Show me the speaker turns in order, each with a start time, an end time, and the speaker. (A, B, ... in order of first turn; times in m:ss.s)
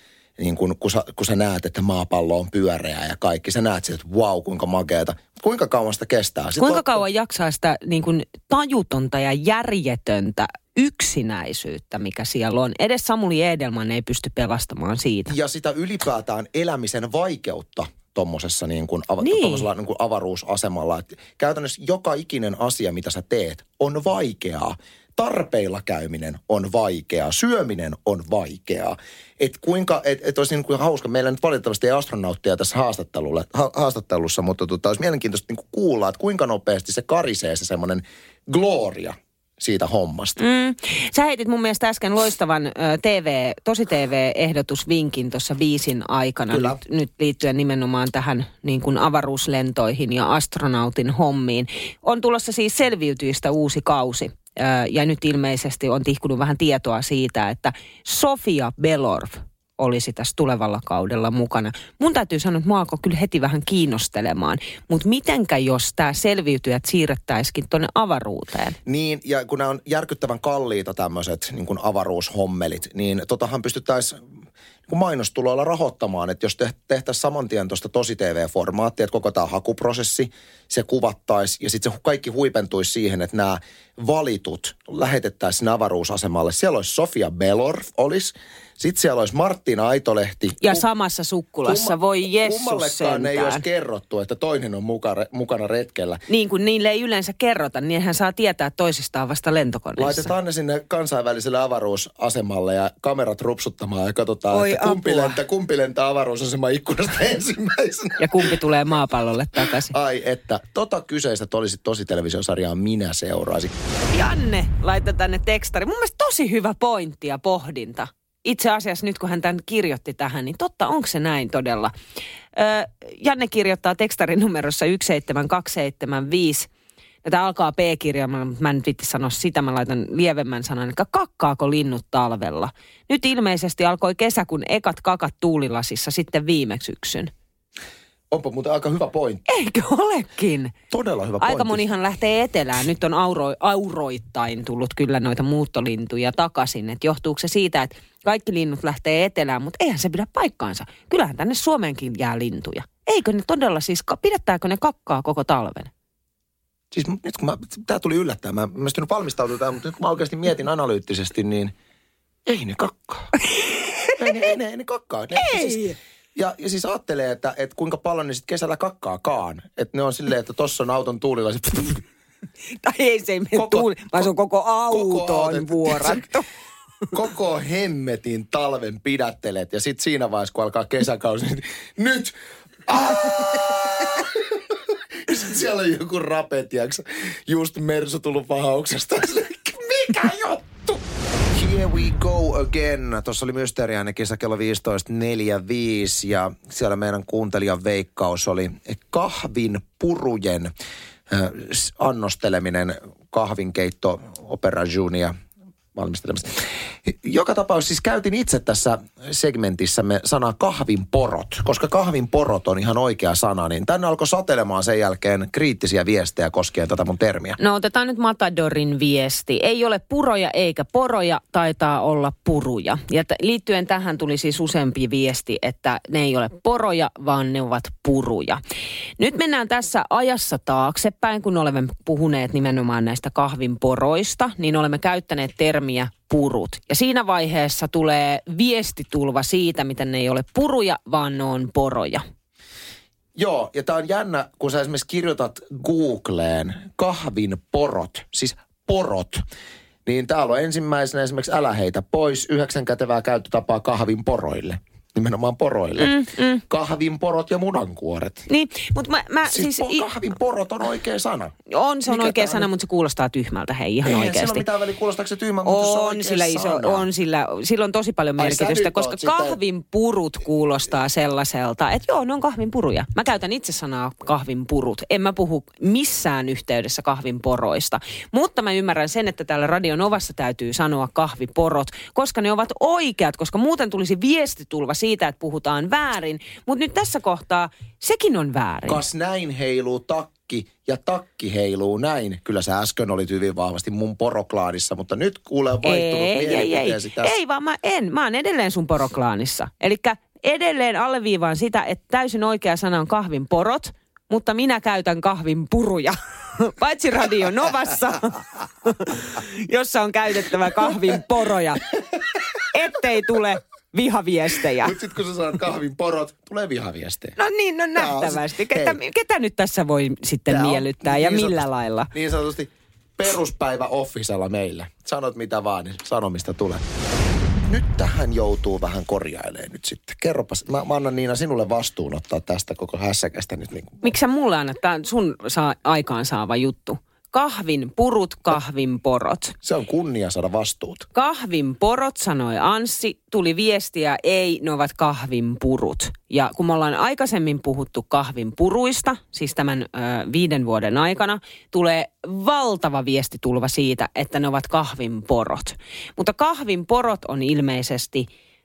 0:00.4-0:07.0 A
0:06.6-0:15.3 B
0:15.3-0:40.4 A
0:19.2-0:19.6 B
0:40.4-1:08.8 B
0:46.5-0:46.8 A
1:08.8-1:14.2 A
1:14.9-1:30.8 A
1:30.6-1:33.6 B
1:31.6-1:36.2 A
1:36.3-1:40.3 B
1:40.0-1:48.5 A
1:44.5-1:45.4 B
1:48.2-1:49.9 B
1:49.6-1:53.8 A
1:54.1-2:01.9 B
2:02.6-2:06.7 B
2:07.2-2:17.3 B
2:18.3-2:19.4 A
2:19.5-2:20.7 B
2:20.9-2:21.8 A
2:21.4-2:35.9 B
2:36.9-2:41.7 A
2:42.4-2:43.3 A
2:43.5-2:44.2 B
2:44.2-2:52.0 A
2:45.3-2:46.0 B
2:52.8-2:56.4 B
2:53.5-2:54.3 A
2:54.9-2:56.3 A
2:57.1-3:02.4 A
3:02.9-3:20.7 A
3:21.3-3:25.3 A
3:25.9-3:37.6 A
3:37.6-3:48.6 B
3:49.2-4:02.2 B
4:03.4-4:09.4 A
4:10.0-4:18.5 A
4:16.0-4:16.6 B
4:18.5-4:20.1 B
4:19.5-4:21.5 A
4:21.7-4:24.6 B
4:22.1-4:22.7 A
4:24.0-4:27.0 A
4:25.6-4:49.0 B
4:28.4-4:29.6 A
4:48.8-4:57.3 A
4:55.8-5:11.9 B
5:12.7-5:15.0 B
5:14.8-5:17.4 A
5:17.4-5:22.1 B
5:17.9-5:19.0 A
5:20.5-5:26.8 A
5:27.6-5:34.1 A
5:34.0-5:39.5 B
5:39.6-5:41.1 A
5:41.1-5:58.3 B